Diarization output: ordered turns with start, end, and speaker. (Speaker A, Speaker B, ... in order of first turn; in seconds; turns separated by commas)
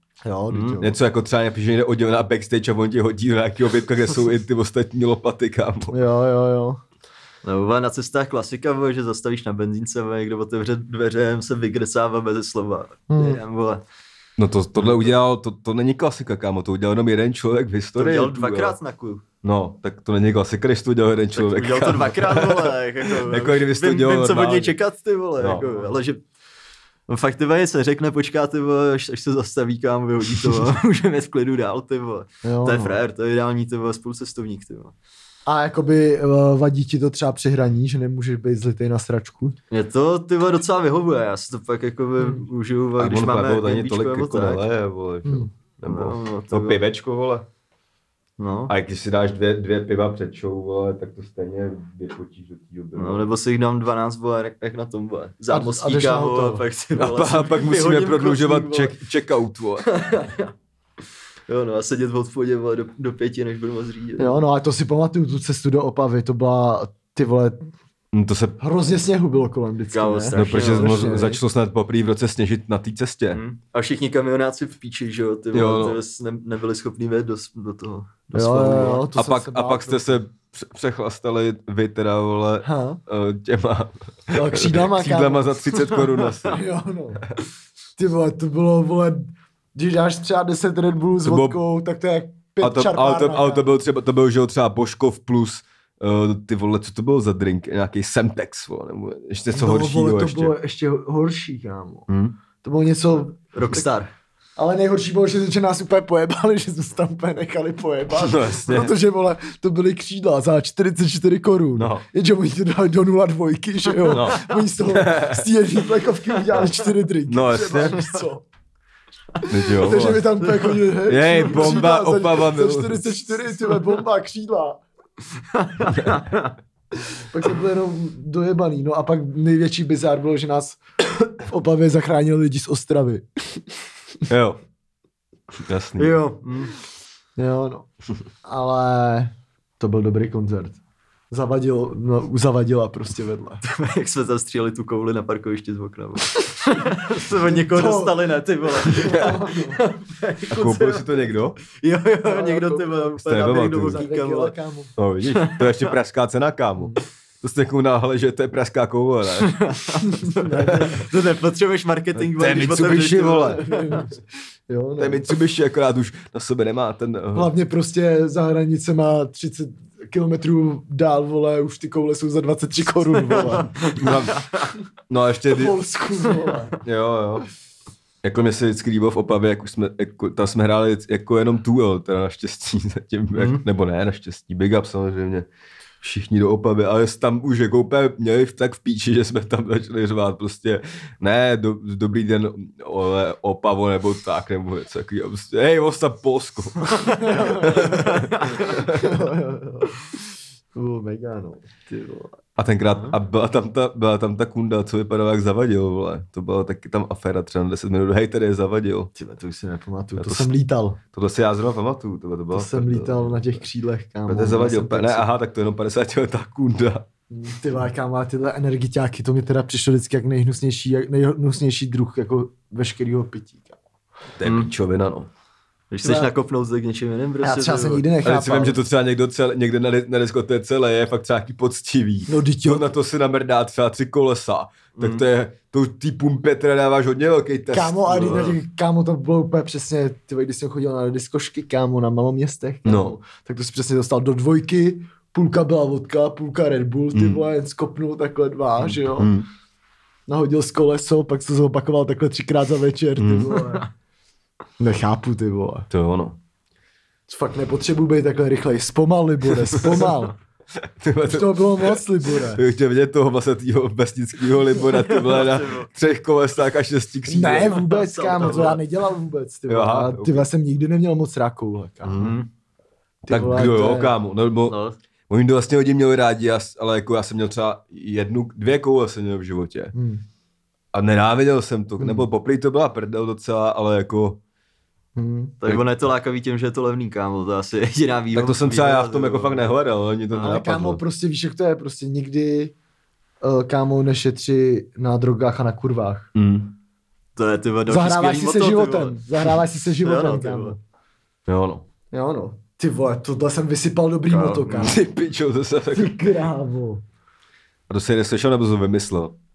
Speaker A: 0.2-0.9, Speaker B: 0.5-0.8, Speaker C: 0.8-5.9, Speaker A: 5.9-6.8, Speaker B: 7.4-13.8, Speaker A: 13.1-13.4, Speaker C: 14.4-18.8, Speaker B: 14.8-15.1, Speaker B: 17.9-19.2, Speaker C: 19.4-24.7, Speaker B: 21.4-26.2, Speaker C: 25.4-25.6, Speaker B: 27.1-34.9, Speaker A: 32.4-33.0, Speaker A: 35.5-39.5, Speaker B: 39.7-44.6, Speaker C: 43.0-47.5, Speaker A: 45.2-45.5, Speaker B: 45.8-46.8, Speaker B: 48.4-48.7, Speaker C: 48.7-53.2, Speaker B: 52.9-58.9, Speaker A: 55.5-56.6, Speaker C: 56.9-59.9, Speaker B: 59.9-60.5, Speaker B: 61.5-64.4, Speaker A: 64.2-67.6, Speaker C: 68.1-68.6, Speaker A: 68.6-71.4, Speaker B: 69.9-71.2, Speaker C: 70.3-73.4, Speaker B: 73.3-79.1, Speaker C: 75.5-76.0, Speaker A: 78.3-80.2, Speaker C: 79.1-86.6, Speaker A: 82.6-83.0, Speaker A: 84.3-85.5, Speaker B: 85.9-86.5, Speaker A: 86.5-87.3, Speaker A: 88.0-93.7, Speaker C: 91.2-91.6, Speaker C: 92.6-100.5, Speaker A: 99.5-102.1, Speaker A: 102.6-103.9, Speaker B: 103.5-104.1, Speaker A: 104.5-118.5, Speaker C: 108.2-108.9, Speaker C: 111.8-112.0, Speaker C: 114.1-115.5, Speaker C: 117.3-118.0, Speaker C: 119.5-120.3, Speaker A: 119.7-124.8, Speaker B: 120.4-120.7, Speaker C: 121.1-123.0, Speaker B: 125.5-126.5, Speaker A: 127.3-130.8, Speaker A: 131.4-133.6, Speaker C: 134.3-134.6, Speaker C: 135.5-136.1, Speaker B: 136.0-136.7, Speaker A: 137.4-137.9, Speaker A: 138.4-140.8, Speaker A: 141.3-143.6, Speaker B: 143.6-154.5, Speaker A: 147.4-148.1, Speaker A: 148.8-149.8, Speaker C: 150.5-151.6, Speaker A: 152.2-154.9, Speaker C: 153.2-154.0, Speaker C: 155.0-159.6, Speaker B: 155.3-155.8, Speaker B: 159.4-164.0, Speaker A: 160.1-161.1, Speaker C: 162.2-163.7, Speaker A: 163.5-164.1, Speaker A: 164.7-165.2, Speaker C: 165.0-167.5, Speaker A: 167.3-173.7, Speaker B: 173.8-174.3, Speaker C: 173.8-174.4, Speaker C: 175.1-175.8, Speaker A: 175.5-176.8, Speaker C: 176.8-177.4, Speaker C: 178.2-185.5, Speaker B: 183.3-183.6, Speaker C: 186.0-199.1, Speaker A: 197.2-198.1, Speaker B: 198.1-198.6, Speaker A: 198.7-202.3, Speaker C: 202.6-209.1, Speaker B: 202.9-203.2, Speaker A: 209.1-211.0, Speaker C: 210.2-210.5, Speaker C: 211.1-213.6, Speaker A: 212.5-215.3, Speaker C: 214.2-217.1, Speaker A: 217.3-223.8, Speaker C: 224.4-225.3, Speaker B: 224.4-224.7, Speaker B: 225.9-228.1, Speaker A: 226.0-226.3, Speaker A: 227.4-228.8, Speaker C: 228.2-238.6, Speaker A: 232.3-232.9, Speaker B: 235.0-235.2, Speaker A: 237.7-249.3, Speaker C: 242.8-243.2, Speaker C: 247.1-247.4, Speaker C: 249.1-249.4, Speaker A: 250.3-253.9, Speaker C: 253.2-253.6, Speaker B: 253.6-253.8, Speaker A: 254.8-255.9, Speaker C: 255.9-256.4, Speaker A: 257.3-260.3, Speaker C: 260.8-267.9, Speaker A: 261.3-262.6, Speaker B: 265.1-265.9, Speaker A: 267.3-272.3, Speaker B: 267.7-268.8, Speaker C: 269.7-270.5, Speaker C: 272.0-272.4, Speaker B: 272.1-272.5, Speaker A: 273.3-274.1, Speaker C: 273.3-274.8, Speaker B: 274.7-275.0, Speaker C: 275.3-279.9, Speaker A: 279.9-280.2, Speaker C: 280.9-284.4, Speaker A: 282.0-282.2, Speaker A: 285.1-285.6, Speaker B: 285.6-289.8, Speaker C: 288.3-291.0, Speaker A: 290.4-292.7, Speaker A: 293.4-296.3, Speaker C: 296.3-296.8, Speaker B: 297.4-299.2, Speaker A: 297.9-300.8, Speaker B: 300.0-300.8, Speaker C: 301.5-301.8, Speaker A: 302.1-305.0, Speaker B: 304.3-304.9, Speaker C: 304.8-306.1, Speaker A: 305.9-307.0, Speaker C: 307.9-309.3